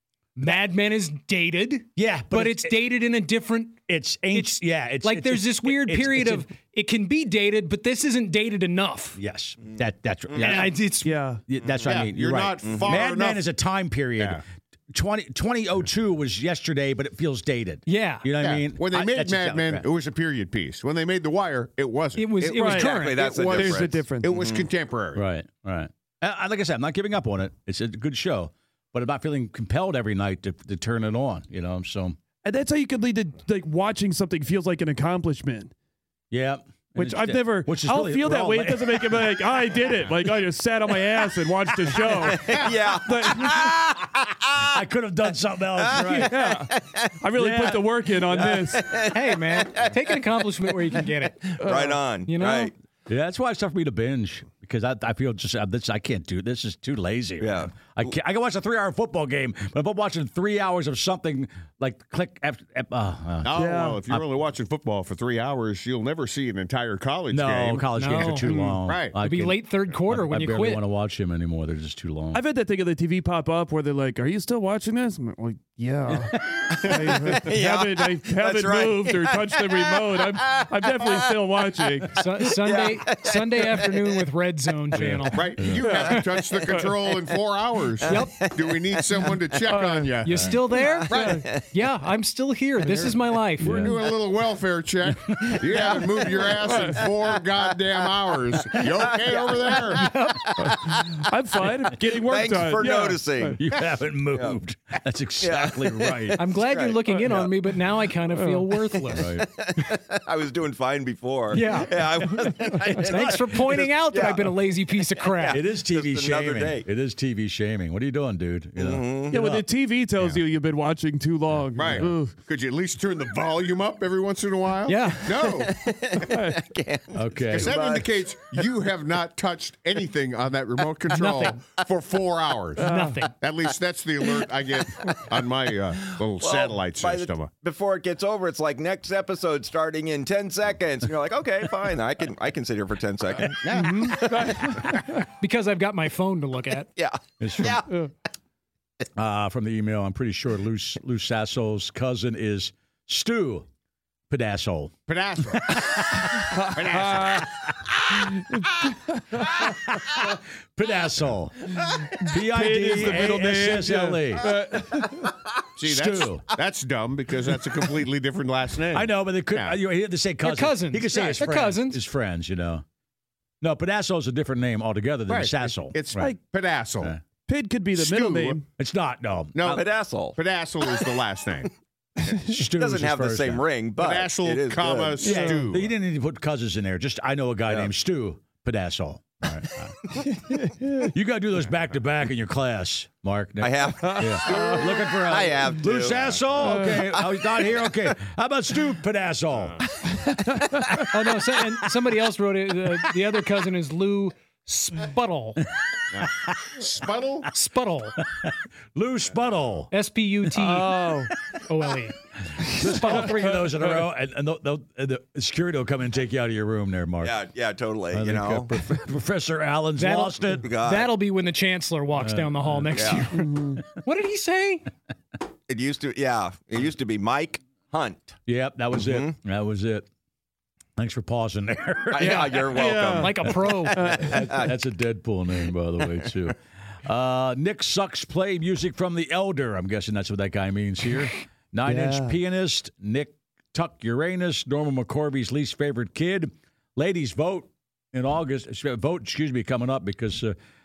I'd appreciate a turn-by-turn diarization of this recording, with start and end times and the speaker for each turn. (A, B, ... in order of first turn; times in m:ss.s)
0:00.4-0:03.8 A
0:02.0-0:02.8 B
0:03.9-0:06.5 B
0:04.3-0:09.2 A
0:09.2-0:19.9 B
0:10.3-0:10.6 C
0:10.4-0:11.1 A
0:11.0-0:11.4 D
0:11.8-0:13.5 E
0:12.6-0:13.0 C
0:14.2-0:14.4 E
0:17.9-0:18.2 A
0:18.4-0:25.2 E
0:22.2-0:23.3 A
0:22.6-0:24.3 D
0:22.7-0:24.7 C
0:25.2-0:32.2 B
0:32.4-0:35.7 D
0:36.3-0:39.4 B
0:37.0-0:43.8 D
0:42.3-0:44.7 C
0:44.6-0:46.5 B
0:45.8-0:47.1 C
0:46.2-0:49.0 D
0:47.4-0:48.7 B
0:48.3-0:50.2 C
0:49.1-0:51.6 A
0:51.6-0:52.7 C
0:51.6-0:52.0 D
0:52.3-0:52.7 A
0:53.1-1:04.2 B
0:57.4-0:58.1 C
1:03.4-1:08.3 E
1:03.5-1:04.0 D
1:07.3-1:12.4 B
1:08.0-1:10.8 A
1:08.5-1:08.8 D
1:08.8-1:09.2 E
1:12.3-1:22.2 D
1:16.8-1:21.2 C
1:22.1-1:25.5 A
1:22.6-1:24.0 C
1:24.9-1:25.8 B
1:25.3-1:30.6 E
1:25.7-1:26.9 D
1:28.1-1:29.4 C
1:28.1-1:28.4 A
1:29.7-1:30.2 D
1:30.2-1:33.8 A
1:30.3-1:30.6 B
1:30.8-1:31.6 C
1:31.1-1:31.5 D
1:31.1-1:31.4 E
1:33.6-1:34.0 B
1:33.6-1:40.1 E
1:35.1-1:35.6 B
1:35.7-1:38.1 C
1:36.4-1:37.1 D
1:38.6-1:41.2 C
1:39.9-1:40.5 A
1:40.6-1:43.6 D
1:42.0-1:43.6 C
1:43.6-1:46.4 B
1:45.4-1:47.5 C
1:46.4-1:49.3 A
1:48.3-1:48.6 D
1:49.1-1:56.9 C
1:49.1-1:49.5 B
1:51.5-1:55.6 A
1:53.1-1:53.4 B
1:55.5-1:59.6 B
1:58.8-1:59.4 C
1:59.3-2:02.4 D
2:01.6-2:02.1 B
2:01.8-2:05.9 E
2:04.9-2:05.5 A
2:05.4-2:08.7 C
2:06.2-2:06.7 D
2:07.1-2:07.8 B
2:07.5-2:17.5 E
2:11.1-2:11.6 A
2:12.8-2:13.3 D
2:12.8-2:13.3 A
2:16.2-2:24.9 C
2:23.6-2:24.2 E
2:23.7-2:25.2 D
2:25.4-2:26.9 A
2:27.0-2:27.9 C
2:27.4-2:27.8 B
2:29.2-2:33.7 B
2:34.3-2:34.9 B
2:35.1-2:36.1 E
2:35.5-2:36.4 B
2:36.5-2:37.5 D
2:36.7-2:37.5 E
2:38.5-2:39.6 D
2:40.8-2:41.7 B
2:42.2-2:45.3 D
2:42.2-2:44.5 B
2:45.8-2:49.8 E
2:45.8-2:46.4 B
2:48.9-2:52.8 B
2:50.4-2:52.0 A
2:53.6-2:56.3 B
2:55.3-2:57.2 E
2:57.5-2:58.7 D
2:58.0-2:58.6 E
2:58.8-2:59.8 B
2:59.6-2:59.8 E
2:59.6-3:00.4 C
3:00.4-3:01.7 E
3:02.3-3:03.6 B
3:02.6-3:05.2 C
3:04.0-3:05.9 E
3:05.2-3:10.0 B
3:05.2-3:05.6 D
3:10.4-3:11.1 D
3:10.9-3:19.8 B
3:13.6-3:16.7 C
3:14.0-3:14.9 D
3:16.6-3:17.0 D
3:20.2-3:21.0 D
3:21.1-3:25.6 A
3:26.1-3:27.5 E
3:26.2-3:26.6 B
3:27.5-3:28.2 A
3:28.2-3:29.9 B
3:29.9-3:31.1 A
3:30.6-3:31.3 D
3:31.1-3:31.6 B
3:31.7-3:32.2 A
3:32.5-3:37.4 B
3:32.7-3:33.9 D
3:32.8-3:33.3 A
3:37.2-3:38.7 C
3:38.1-3:40.7 B
3:40.0-3:44.9 A
3:40.6-3:41.1 C
3:42.2-3:43.2 B
3:43.0-3:43.3 C
3:43.4-3:43.8 D
3:45.7-3:48.4 C
3:48.5-3:50.1 B
3:48.9-3:49.4 C
3:51.0-3:52.6 B
3:52.1-3:54.7 C
3:52.2-3:54.0 A
3:52.7-3:53.3 D
3:53.9-4:10.6 B
3:54.0-3:54.4 D
4:01.8-4:02.4 D